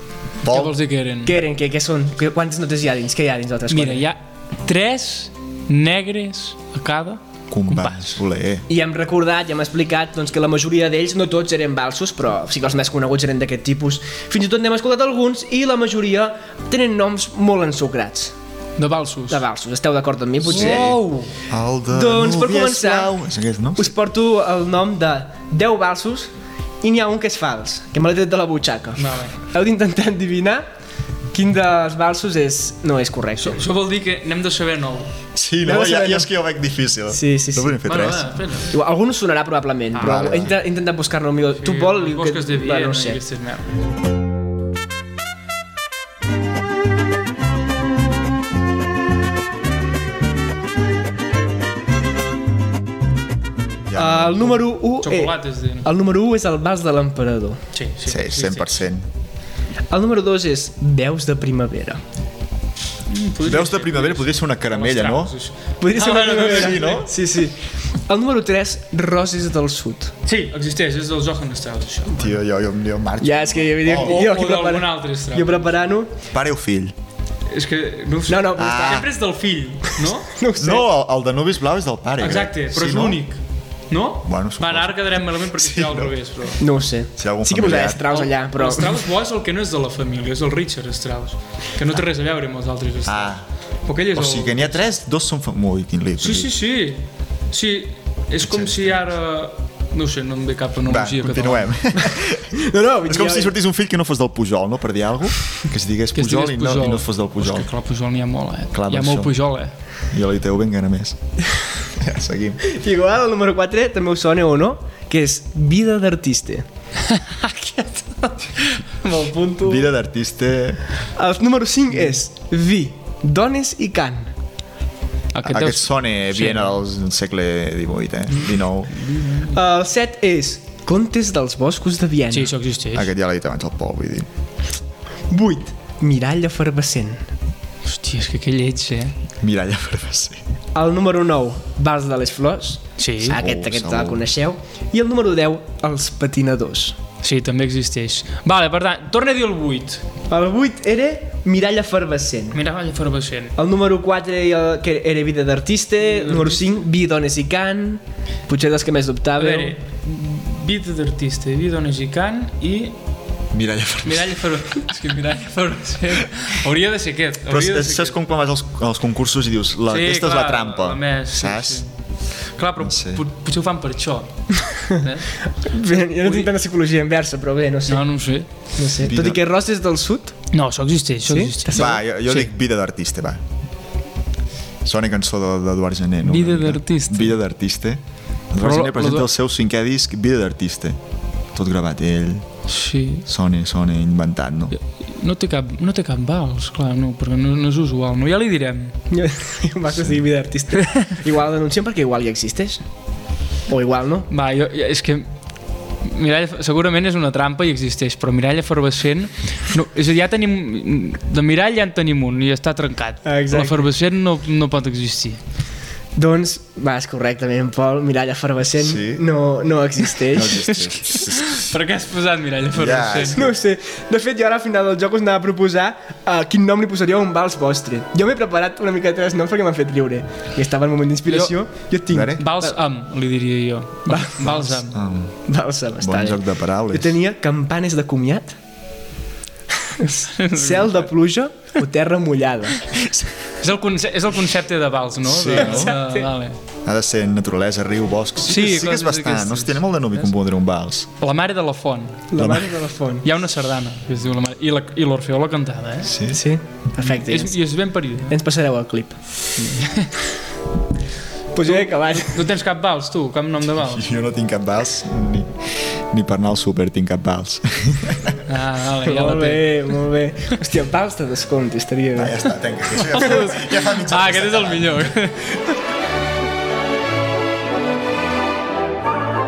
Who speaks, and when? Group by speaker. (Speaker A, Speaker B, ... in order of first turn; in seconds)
Speaker A: 0.4-0.8, 7.5-8.7, 20.5-20.9, 21.5-23.9, 35.4-38.3, 40.0-40.5, 53.9-54.7, 58.1-59.0, 63.5-65.3, 66.5-67.1, 72.2-74.3, 76.2-77.0, 78.5-79.1, 80.6-83.2, 84.2-86.1, 87.2-88.1, 93.0-93.4, 94.1-96.5, 98.4-99.0, 100.8-102.5, 103.0-107.7, 108.7-109.4, 110.1-111.2, 111.9-112.6, 119.6-120.8, 125.5-129.0, 132.9-134.3, 139.4-140.4, 143.4-144.2, 163.5-164.4, 167.5-171.8, 172.8-173.2, 179.0-179.4, 181.7-183.4, 184.8-188.0, 188.5-191.0, 191.5-192.5, 193.3-194.7, 218.8-219.2, 220.3-221.6, 222.7-223.6, 232.1-232.4, 234.4-235.3, 236.0-237.2, 245.2-245.9, 246.8-251.1, 252.4-252.7, 256.0-256.4, 263.9-268.4, 272.1-275.1
Speaker B: 0.5-1.4, 3.7-8.2, 18.8-19.4, 20.5-21.3, 29.0-29.4, 33.4-35.1, 37.9-38.8, 39.9-40.3, 41.6-43.8, 55.0-55.9, 57.7-58.9, 63.1-67.1, 70.2-72.3, 73.9-75.7, 77.5-80.3, 82.2-86.6, 88.1-95.0, 96.2-101.7, 106.1-109.7, 117.1-119.8, 125.3-126.8, 128.3-129.6, 132.3-133.1, 137.8-139.1, 143.0-143.4, 147.2-150.0, 152.5-153.5, 156.0-156.8, 159.4-163.0, 164.0-168.2, 169.9-171.9, 172.6-175.3, 176.2-176.5, 177.9-178.5, 180.5-182.5, 186.2-187.4, 188.6-189.3, 192.7-193.2, 194.7-198.9, 204.3-205.3, 206.0-215.4, 220.6-223.5, 231.3-231.5, 232.4-235.0, 240.2-241.0, 243.6-246.6, 248.4-250.4, 251.2-252.3, 253.2-256.1, 257.0-258.4, 259.6-260.3, 261.6-264.0, 268.5-269.9, 272.9-275.7
Speaker C: 1.2-4.1, 8.7-18.3, 19.3-21.0, 21.9-23.1, 23.8-26.3, 26.8-30.6, 31.3-33.6, 35.6-36.3, 37.1-37.9, 38.7-43.2, 54.0-57.6, 59.9-62.0, 65.8-70.1, 73.2-76.2, 78.3-79.0, 80.2-80.9, 86.6-89.0, 102.0-103.5, 112.6-116.7, 121.0-124.3, 129.5-132.5, 135.3-137.2, 140.7-147.0, 150.3-152.6, 153.6-159.8, 175.5-178.1, 178.8-180.4, 181.3-181.9, 199.1-202.8, 203.7-204.3, 213.2-213.9, 216.2-220.7, 223.3-232.8, 234.1-234.6, 235.4-238.6, 239.8-243.2, 245.6-246.3, 252.3-253.3, 256.3-257.6, 258.3-259.2, 261.5-262.4, 269.0-272.4, 273.1-273.4